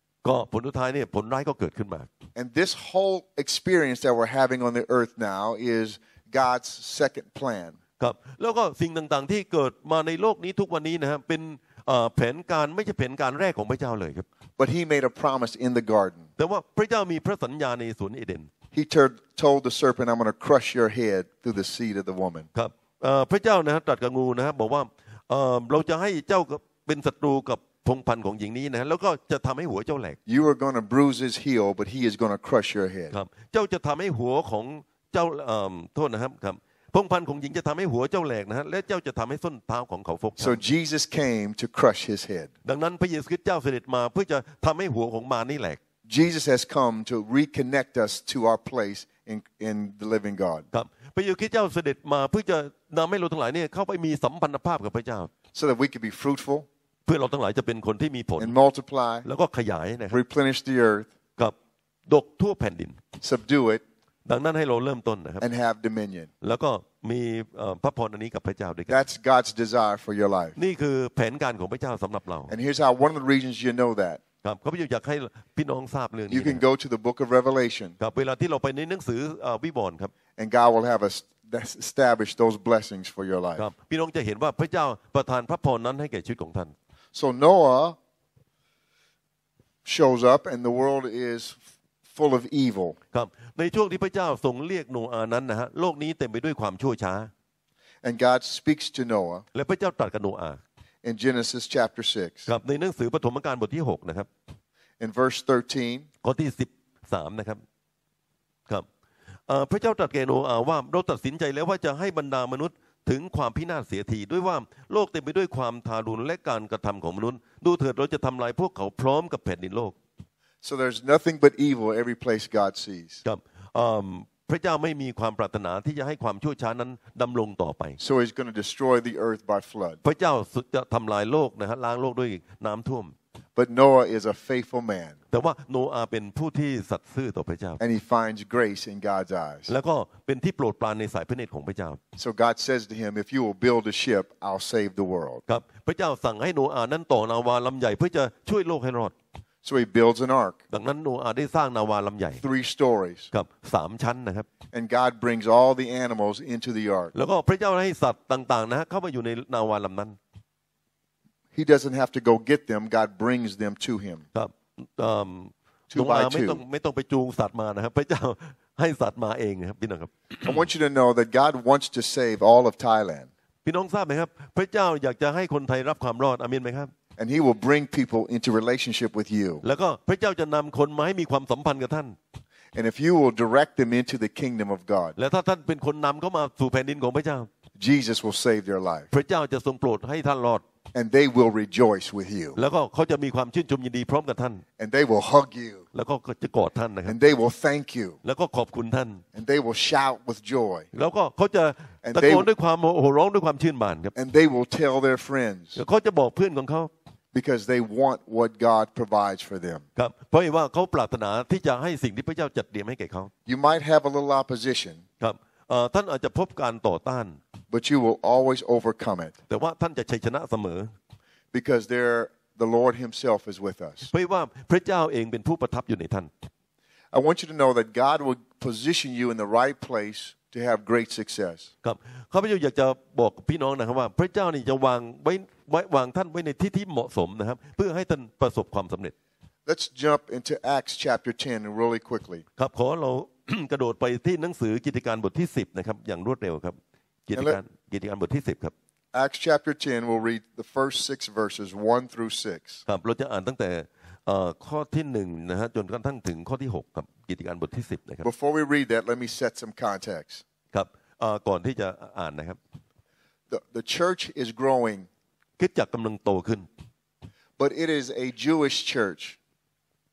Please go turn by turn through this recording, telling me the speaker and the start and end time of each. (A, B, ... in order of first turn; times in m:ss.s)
0:00.2-0:02.1 A
0:02.3-0:07.8 B
0:08.0-0:14.2 A
0:14.6-0:16.3 B
0:16.4-0:18.5 A
0:18.7-0:22.5 B
0:22.5-0:30.2 A
0:30.3-0:33.1 B
0:33.1-0:40.6 A
0:40.4-0:42.5 B
0:42.6-0:45.8 A
0:46.1-0:50.6 B
0:50.7-0:55.3 A
0:55.5-0:56.7 B
0:57.0-0:58.6 A
0:58.4-0:59.2 B
0:59.2-1:00.2 A
1:00.1-1:01.1 B
1:02.1-1:03.0 A
1:03.2-1:03.8 B
1:04.2-1:05.4 A
1:05.4-1:06.3 B
1:06.4-1:09.0 A
1:08.9-1:10.6 B
1:10.6-1:12.5 A
1:12.5-1:14.2 B
1:14.4-1:16.6 A
1:16.3-1:18.0 B
1:18.0-1:20.1 A
1:20.4-1:23.7 B
1:23.6-1:26.7 A
1:27.1-1:28.0 B
1:29.8-1:33.0 B
1:33.1-1:37.3 A
1:38.0-1:39.4 B
1:39.5-1:40.6 A
1:41.0-1:42.5 B
1:42.5-1:44.3 A
1:45.0-1:46.1 B
1:46.2-1:47.6 A
1:49.5-2:00.0 A
2:00.6-2:03.2 B
2:03.2-2:08.0 A
2:08.0-2:10.0 B
2:10.0-2:13.1 A
2:13.6-2:15.2 B
2:15.3-2:17.8 A
2:17.8-2:19.7 B
2:19.7-2:22.0 A
2:22.2-2:25.4 B
2:25.5-2:29.1 A
2:29.6-2:30.6 B
2:30.7-2:32.4 A
2:32.4-2:33.3 B
2:33.3-2:34.5 A
2:34.7-2:37.1 B
2:37.1-2:40.2 A
2:41.5-2:44.2 B
2:44.3-2:50.6 A
2:45.9-2:46.6 B
2:50.4-2:53.3 B
2:53.6-2:56.9 A
2:57.2-2:59.6 B
2:59.6-3:02.2 A
3:02.7-3:05.2 B
3:05.2-3:07.5 A
3:07.8-3:09.1 B
3:09.1-3:10.6 A
3:10.9-3:12.6 B
3:12.6-3:14.6 A
3:14.8-3:15.8 B
3:15.9-3:17.1 A
3:17.0-3:18.2 B
3:18.2-3:19.2 A
3:19.3-3:20.9 B
3:20.9-3:24.1 A
3:22.0-3:22.5 B
3:24.1-3:25.8 B
3:25.8-3:26.9 A
3:27.3-3:29.8 B
3:30.0-3:33.3 A
3:33.5-3:35.0 B
3:35.2-3:37.4 A
3:37.7-3:39.3 B
3:39.5-3:40.9 A
3:41.5-3:44.1 B
3:44.1-3:46.3 A
3:47.1-3:51.7 B
3:51.8-3:59.1 A
3:59.6-4:02.4 B
4:02.6-4:06.8 A
4:07.3-4:08.7 A
4:09.1-4:12.8 B
4:12.9-4:18.3 A
4:18.2-4:20.4 B
4:20.7-4:22.6 A
4:23.5-4:25.1 B
4:25.6-4:26.7 A
4:27.6-4:29.4 B